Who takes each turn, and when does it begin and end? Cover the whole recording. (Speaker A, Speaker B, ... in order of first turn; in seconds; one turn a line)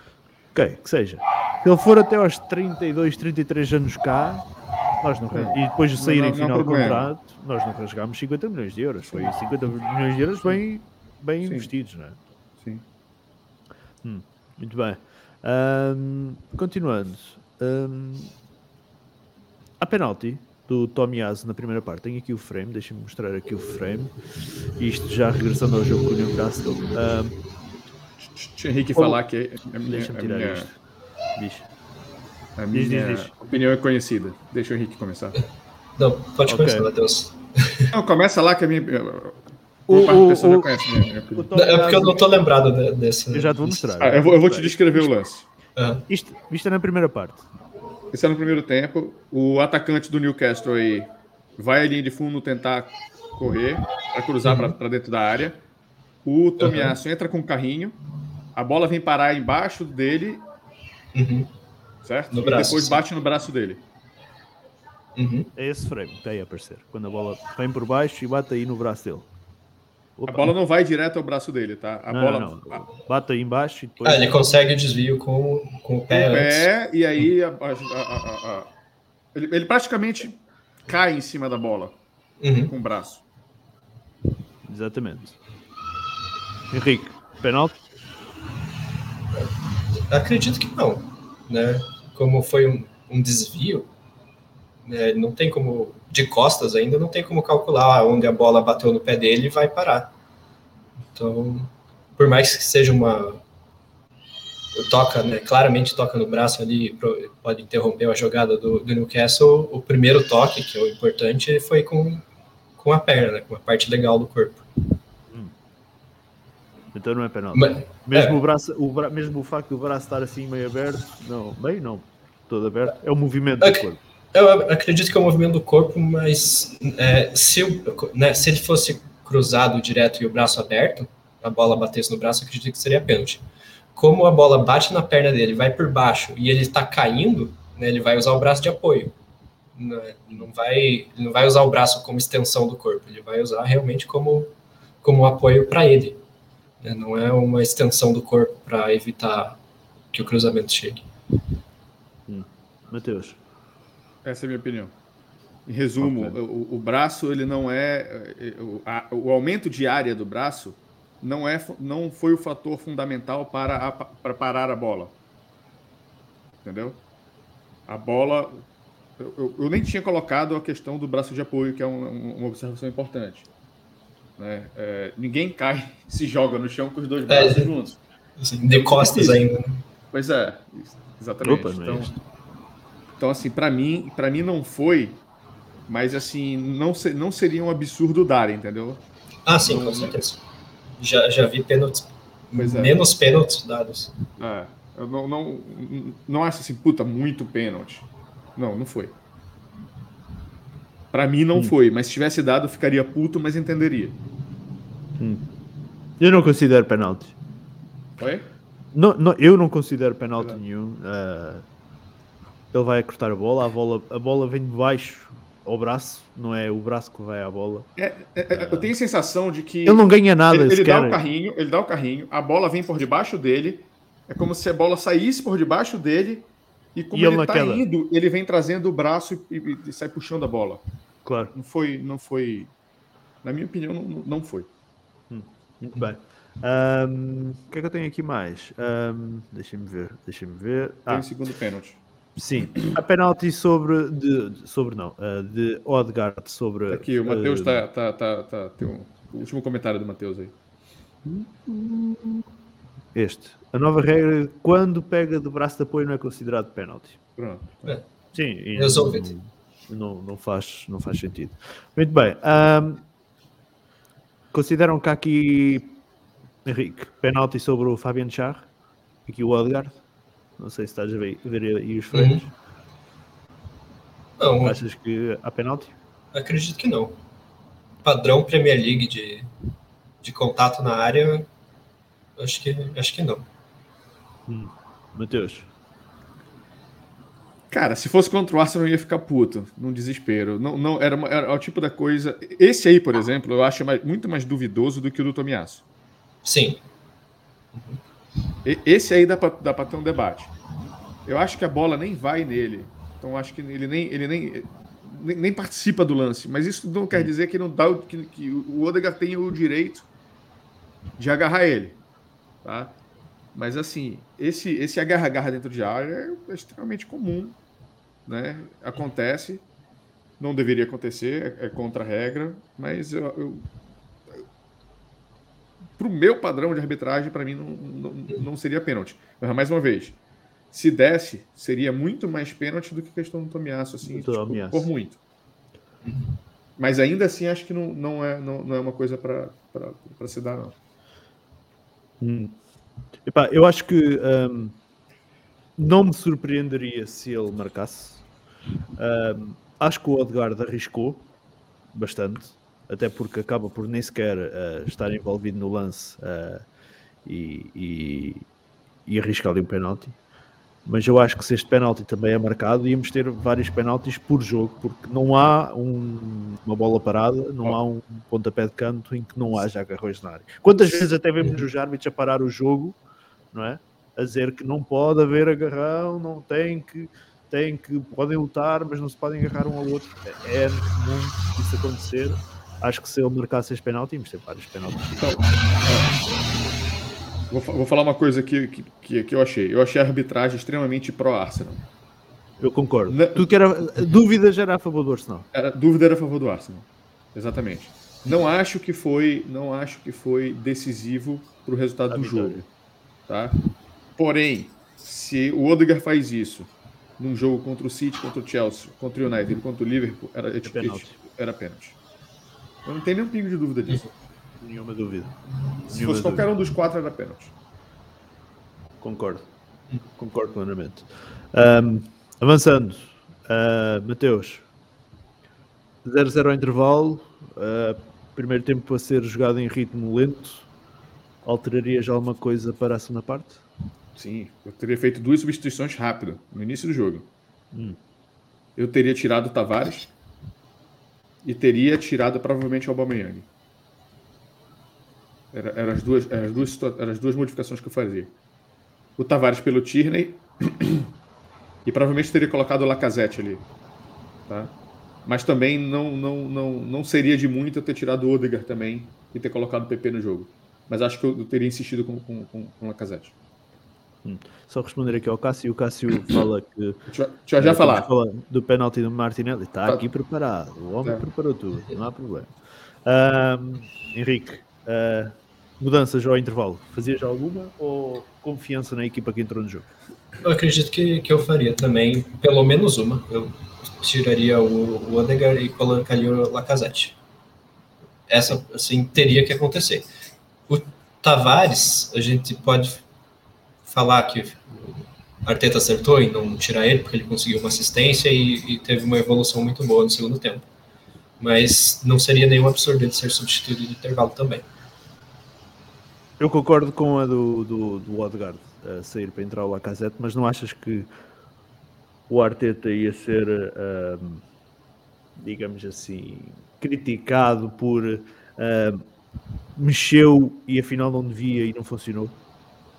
Speaker A: 0.5-4.5
Speaker A: 5.0-12.2
Speaker B: 5.3-7.1
Speaker B: 11.4-11.7
Speaker A: 14.0-18.3
Speaker A: 19.8-24.1
Speaker A: 24.8-27.4
Speaker B: 28.2-30.7
Speaker A: 28.9-29.2
Speaker A: 29.8-30.8
Speaker A: 31.4-31.7
Speaker B: 32.6-35.4
Speaker A: 32.7-33.3
Speaker C: 36.0-37.9
Speaker A: 36.5-36.9
Speaker B: 37.9-41.5
Speaker A: 39.9-42.4
Speaker C: 41.5-43.8
Speaker A: 43.3-45.1
Speaker B: 44.0-45.5
Speaker C: 45.8-46.0
Speaker A: 46.1-47.5
Speaker B: 48.1-55.6
Speaker C: 54.5-54.7
Speaker B: 56.2-58.0
Speaker C: 56.6-57.0
Speaker B: 58.5-60.4
Speaker C: 61.1-61.5
Speaker B: 62.0-63.8
Speaker C: 62.3-63.0
Speaker C: 65.2-65.5
Speaker A: 65.6-69.3
Speaker A: 70.2-70.5
Speaker B: 70.3-72.8
Speaker A: 72.1-74.4
Speaker C: 74.0-76.7
Speaker B: 76.1-78.7
Speaker B: 79.3-82.0
Speaker C: 82.4-82.7
Speaker B: 82.7-83.2
Speaker A: 84.7-85.4
Speaker A: 86.7-87.8
Speaker C: 90.1-93.9
Speaker C: 94.8-100.1
Speaker C: 101.1-103.4
Speaker C: 104.7-112.2
Speaker C: 112.8-114.7
Speaker A: 116.9-124.0
Speaker C: 117.5-118.4
Speaker C: 123.6-139.1
Speaker C: 139.8-144.5
Speaker C: 145.0-146.2
Speaker C: 146.8-149.6
Speaker C: 150.1-151.1
Speaker A: 152.3-153.4
Speaker B: 154.2-154.9
Speaker B: 155.7-165.2
Speaker A: 156.0-156.4
Speaker B: 166.6-167.0
Speaker B: 167.9-168.6
Speaker B: 169.2-173.5
Speaker B: 174.4-178.0
Speaker C: 177.3-177.7
Speaker C: 178.4-179.8
Speaker B: 178.7-179.4
Speaker B: 180.1-182.1
Speaker A: 181.4-182.1
Speaker B: 183.2-185.2
Speaker B: 185.9-189.0
Speaker C: 189.5-190.4
Speaker B: 189.6-190.2
Speaker C: 191.0-194.1
Speaker B: 192.6-193.0
Speaker B: 194.4-199.2
Speaker B: 201.1-204.2
Speaker A: 205.2-205.4
Speaker A: 206.2-207.4
Speaker B: 208.2-208.5
Speaker A: 208.9-211.7
Speaker A: 212.7-217.9
Speaker B: 218.0-230.8
Speaker A: 218.5-218.9
Speaker A: 219.9-221.2
Speaker A: 227.1-227.9
Speaker A: 231.2-231.5
Speaker B: 231.5-232.7
Speaker B: 233.4-234.7
Speaker A: 235.3-241.3
Speaker B: 241.1-242.0
Speaker A: 242.4-247.8
Speaker B: 246.9-250.5
Speaker A: 251.3-252.4
Speaker A: 253.1-257.2
Speaker B: 257.4-258.0
Speaker A: 258.3-263.1
Speaker C: 258.7-259.3
Speaker A: 264.5-266.0
Speaker A: 266.6-268.7
Speaker A: 269.3-270.0
Speaker A: 270.6-272.5
Speaker C: 272.1-272.4
Speaker C: 274.4-274.8
Speaker A: 274.6-275.9
Speaker C: 276.3-277.2
Speaker C: 278.1-279.5
Speaker C: 280.2-281.5
Speaker C: 282.4-283.5
Speaker A: 284.5-285.7
Speaker B: 287.7-295.8
Speaker C: 296.4-296.8
Speaker B: 298.6-300.5
Speaker B: 301.3-310.1
Speaker B: 311.2-312.0
Speaker B: 312.6-312.9
Speaker B: 313.5-317.6
Speaker B: 318.3-319.6
Speaker B: 320.4-323.7
Speaker B: 326.0-330.2
Speaker B: 330.7-335.2
Speaker A: 334.1-334.9
Speaker C: 336.1-336.4
Speaker B: 336.8-340.8
Speaker A: 342.2-342.6
Speaker A: 343.2-344.8
Speaker A: 345.8-348.2
Speaker A: 349.0-351.2
Speaker A: 351.9-356.6
Speaker A: 357.2-358.5
Speaker A: 359.1-360.2
Speaker A: 360.9-373.0
Speaker A: 373.5-385.4
Speaker B: 385.2-386.2
Speaker B: 387.5-391.9
Speaker A: 392.6-395.5
Speaker B: 393.1-393.5
Speaker B: 395.5-402.7
Speaker A: 402.1-402.6
Speaker B: 403.3-403.6
Speaker B: 404.2-412.0
Speaker A: 410.6-411.1
Speaker B: 412.9-414.1
Speaker A: 414.6-415.3
Speaker B: 415.9-417.5
Speaker A: 415.9-416.5
Speaker A: 419.0-419.5
Speaker A: 420.2-424.6
Speaker A: 426.0-430.7
Speaker A: 431.4-433.6
Speaker B: 434.1-437.3
Speaker A: 437.7-438.0
Speaker B: 438.8-440.1
Speaker B: 441.4-443.5
Speaker B: 445.5-448.3
Speaker B: 449.2-451.1
Speaker B: 451.9-453.6
Speaker B: 454.5-454.7
Speaker B: 455.2-463.3
Speaker A: 464.2-467.0
Speaker B: 467.1-468.1
Speaker A: 467.6-472.5
Speaker A: 473.1-479.9
Speaker C: 480.4-487.2
Speaker C: 488.3-490.1
Speaker C: 490.7-493.0
Speaker C: 493.9-500.7
Speaker C: 501.4-504.7
Speaker A: 506.4-511.1
Speaker A: 512.3-514.4
Speaker A: 515.4-519.0
Speaker A: 519.8-522.4